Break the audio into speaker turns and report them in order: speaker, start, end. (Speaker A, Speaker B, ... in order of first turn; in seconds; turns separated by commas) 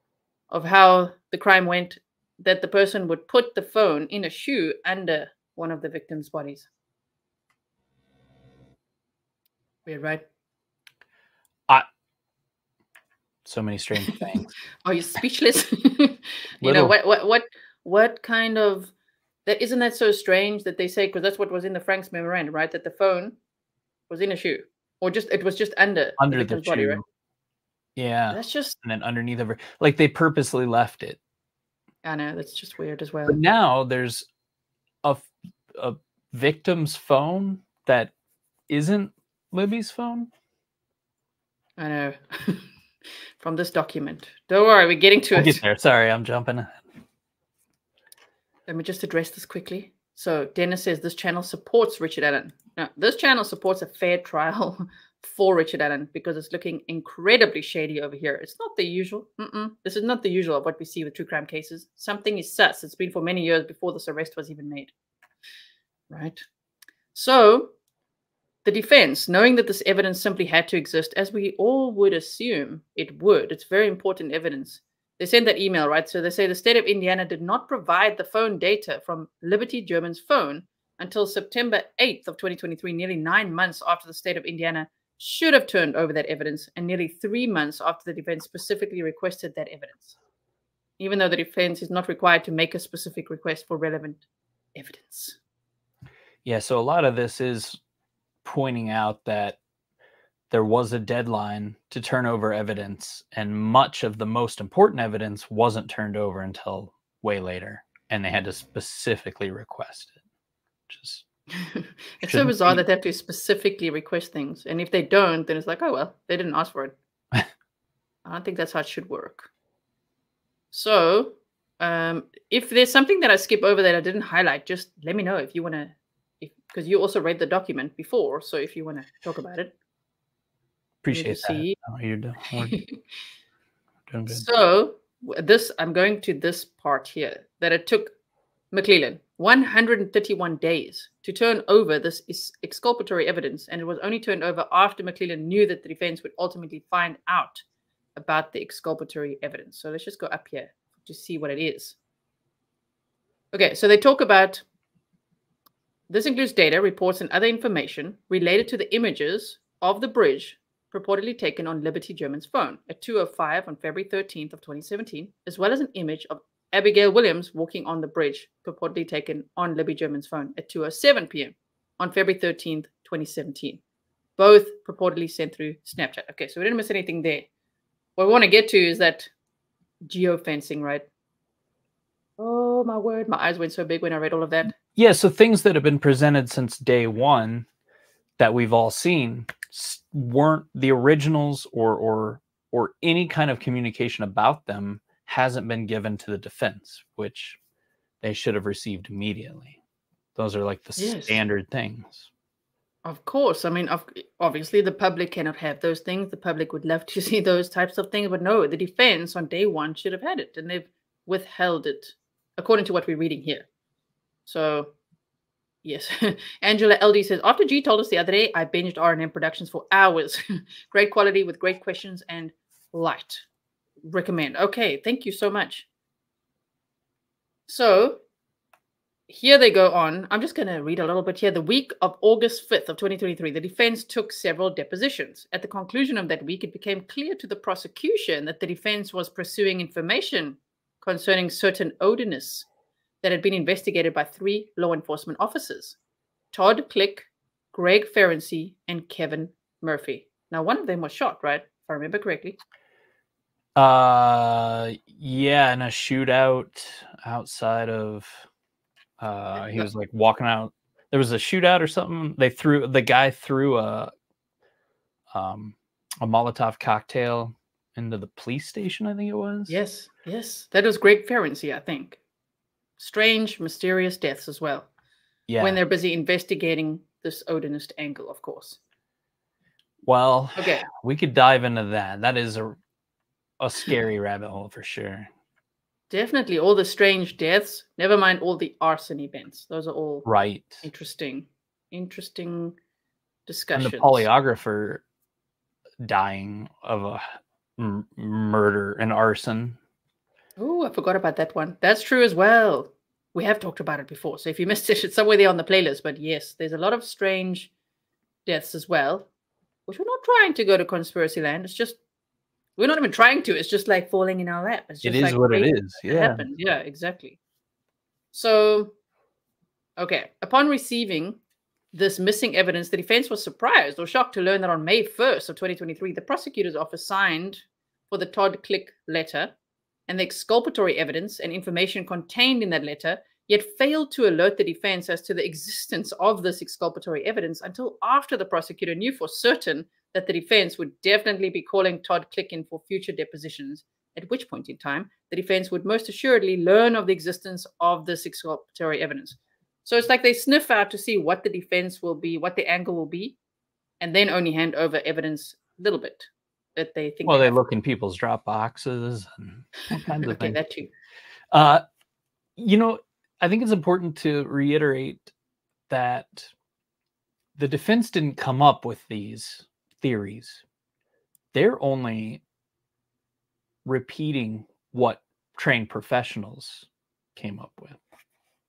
Speaker A: 0.5-6.7, Speaker A: 9.9-10.2, Speaker B: 13.4-14.5, Speaker A: 14.8-18.9, Speaker B: 16.6-16.9, Speaker A: 19.5-23.4, Speaker A: 24.1-27.0, Speaker B: 26.2-27.0, Speaker B: 28.0-31.2, Speaker A: 28.3-28.8, Speaker A: 32.0-33.4, Speaker B: 33.3-34.3, Speaker B: 35.0-38.1, Speaker B: 38.7-40.3, Speaker A: 41.8-42.7, Speaker A: 43.4-45.6, Speaker B: 45.4-46.8, Speaker A: 48.7-64.9, Speaker A: 66.1-66.4, Speaker A: 67.1-67.7, Speaker A: 68.7-90.2, Speaker A: 91.0-94.2, Speaker A: 94.8-95.4, Speaker B: 96.5-97.8, Speaker B: 98.4-99.6, Speaker B: 100.5-110.2, Speaker B: 110.9-111.2, Speaker A: 111.6-117.0, Speaker B: 112.2-112.8, Speaker A: 118.2-119.5, Speaker A: 120.7-129.7, Speaker B: 131.0-132.8, Speaker A: 131.1-131.8, Speaker A: 132.5-133.0, Speaker B: 134.1-134.4, Speaker A: 134.3-138.1, Speaker A: 138.7-147.6, Speaker A: 148.2-152.0, Speaker A: 153.5-154.6, Speaker A: 156.1-173.8, Speaker A: 174.4-177.5, Speaker A: 178.2-179.3, Speaker A: 180.1-181.1, Speaker A: 182.4-184.8, Speaker B: 184.9-187.7, Speaker B: 188.4-197.6, Speaker B: 198.2-199.8, Speaker B: 200.4-202.3, Speaker A: 201.0-201.4, Speaker A: 203.1-213.7, Speaker A: 214.5-214.9, Speaker A: 215.8-223.5, Speaker A: 224.0-225.9, Speaker A: 227.7-228.2, Speaker A: 229.3-242.7, Speaker A: 243.2-246.0, Speaker A: 246.5-252.6, Speaker B: 253.8-258.4, Speaker B: 259.2-264.1, Speaker B: 265.3-269.8, Speaker A: 269.7-272.2, Speaker A: 273.0-274.9, Speaker B: 275.5-275.8, Speaker A: 275.6-278.8, Speaker B: 280.1-282.8, Speaker A: 280.6-280.9, Speaker B: 283.6-285.3, Speaker A: 286.1-290.3, Speaker B: 290.2-290.8, Speaker A: 290.8-292.8, Speaker A: 293.5-294.3, Speaker B: 293.8-295.0, Speaker B: 296.0-297.2, Speaker B: 297.8-299.8, Speaker A: 300.6-307.7, Speaker A: 308.5-309.3, Speaker A: 309.9-312.0, Speaker A: 312.8-317.4, Speaker B: 315.0-316.4, Speaker A: 318.3-318.9, Speaker A: 320.0-321.4, Speaker A: 321.9-329.5, Speaker A: 330.1-353.4, Speaker A: 354.0-357.5, Speaker B: 357.3-360.6, Speaker A: 359.9-360.9, Speaker B: 361.5-361.8, Speaker B: 362.6-365.3, Speaker B: 365.9-366.5, Speaker B: 367.6-370.6, Speaker B: 371.5-372.4, Speaker B: 373.9-378.0